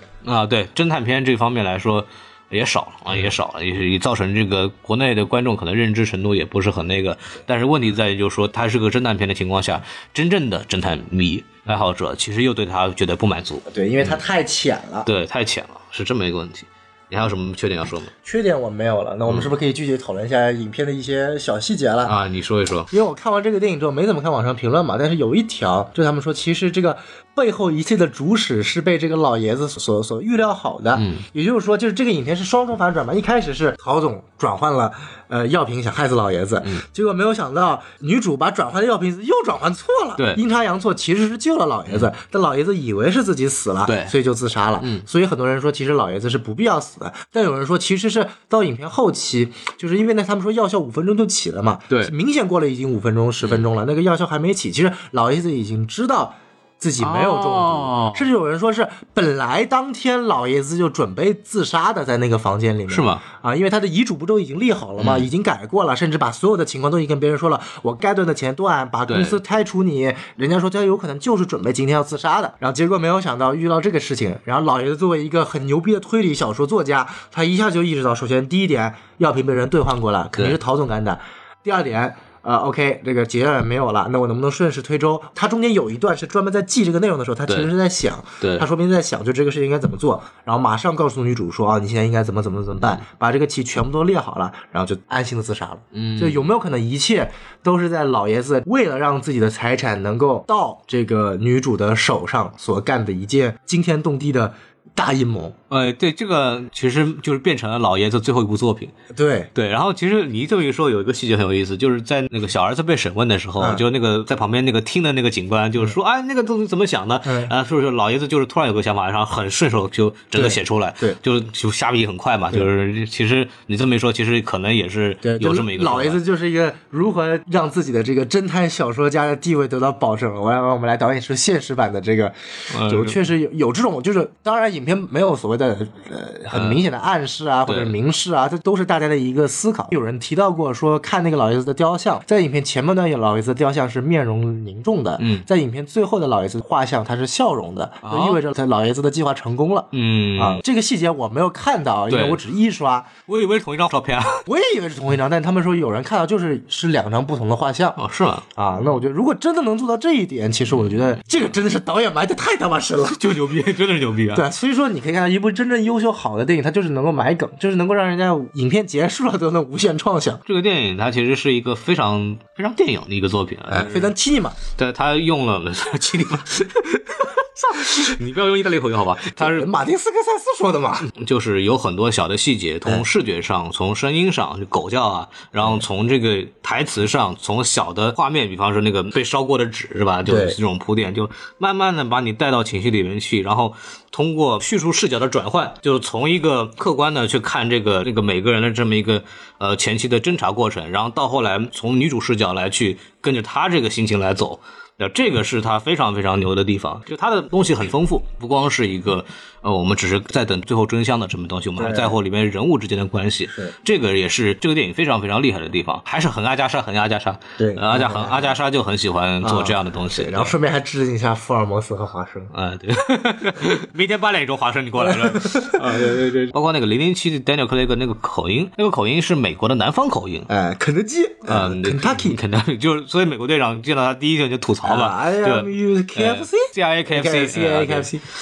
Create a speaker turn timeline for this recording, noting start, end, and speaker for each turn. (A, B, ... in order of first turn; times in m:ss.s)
0:00.2-0:14.2 A
0:13.7-0:15.1 B
0:15.0-0:18.1 A
0:18.2-0:22.2 B
0:19.3-0:19.5 A
0:22.0-0:22.9 A
0:22.9-1:45.5 B
0:31.0-0:31.2 A
0:40.2-0:40.4 A
0:43.8-0:44.1 A
0:44.8-0:45.0 A
0:57.0-0:58.3 A
1:02.9-1:03.2 A
1:05.0-1:05.3 A
1:09.1-1:09.4 A
1:28.4-1:28.7 A
1:35.9-1:36.5 A
1:45.7-1:48.9 A
1:49.1-1:49.5 B
1:49.5-2:06.2 A
1:53.6-1:53.8 B
1:57.2-1:57.5 B
2:00.3-2:01.2 B
2:05.2-2:33.1 B
2:12.7-2:13.2 A
2:16.5-2:16.8 A
2:17.7-2:17.9 A
2:25.2-2:25.4 A
2:28.0-2:28.4 A
2:29.9-2:30.6 A
2:32.1-2:32.4 A
2:33.3-2:34.4 A
2:34.4-2:38.0 B
2:38.0-2:38.4 A
2:38.6-2:43.6 B
2:40.7-2:41.2 A
2:43.2-2:44.4 A
2:44.3-2:50.4 B
2:50.4-2:54.1 A
2:53.7-2:54.6 B
2:54.8-2:59.7 A
2:59.4-3:01.1 B
3:01.0-3:40.5 A
3:10.2-3:10.6 B
3:31.8-3:32.2 B
3:37.6-3:38.6 B
3:39.4-3:42.5 B
3:42.5-3:50.5 A
3:45.0-3:45.9 B
3:50.5-3:52.4 B
3:51.5-3:58.1 A
3:54.8-3:58.2 B